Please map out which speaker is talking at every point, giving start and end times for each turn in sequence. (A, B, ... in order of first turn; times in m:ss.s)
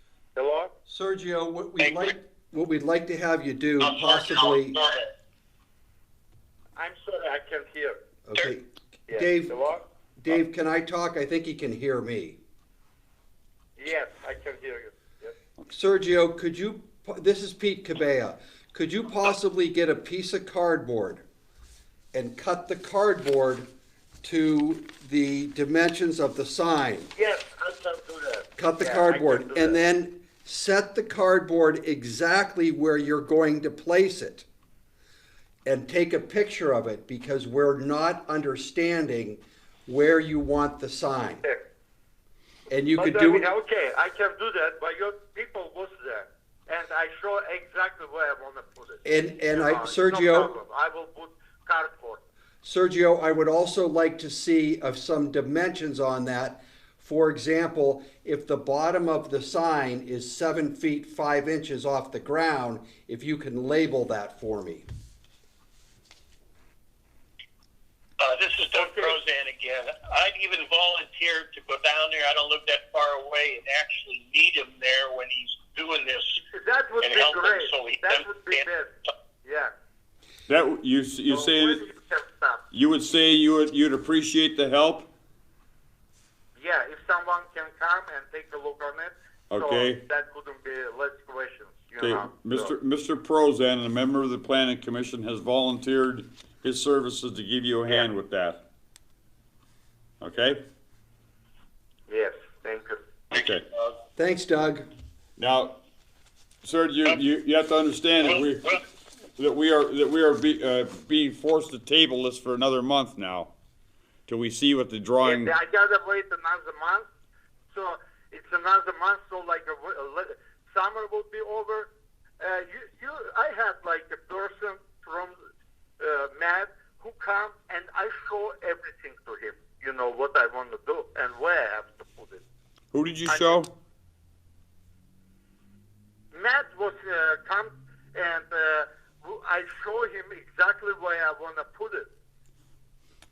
0:00.4-0:00.7 A
0:00.9-0:04.8 B
0:01.8-0:02.1 C
0:03.8-0:05.1 C
0:06.8-0:08.0 A
0:08.3-0:09.5 B
0:09.1-0:09.8 A
0:10.2-0:12.4 B
0:13.8-0:15.4 A
0:15.7-0:21.2 B
0:22.1-0:23.7 B
0:24.2-0:27.1 B
0:27.2-0:29.8 A
0:28.6-0:34.4 B
0:35.7-0:41.4 B
0:42.7-0:43.5 B
0:43.0-0:52.2 A
0:49.0-0:50.5 B
0:52.6-1:04.9 B
1:08.2-1:16.4 C
1:08.7-1:09.2 A
1:16.4-1:18.9 A
1:17.0-1:18.7 C
1:19.4-1:19.7 A
1:20.5-1:21.8 D
1:21.3-1:22.6 A
1:22.7-1:25.1 D
1:26.6-1:32.7 A
1:29.5-1:30.0 D
1:32.0-1:38.6 D
1:40.2-1:40.6 D
1:42.1-1:43.0 A
1:43.3-1:43.6 D
1:44.2-1:44.9 B
1:45.4-1:45.8 D
1:46.6-1:48.8 D
1:48.2-1:48.8 C
1:49.4-1:53.5 D
1:54.3-1:55.5 D
1:55.2-1:57.1 A
1:57.7-2:05.4 A
2:06.0-2:12.4 A
2:12.9-2:13.7 D
2:13.3-2:13.6 A
2:16.3-2:22.1 A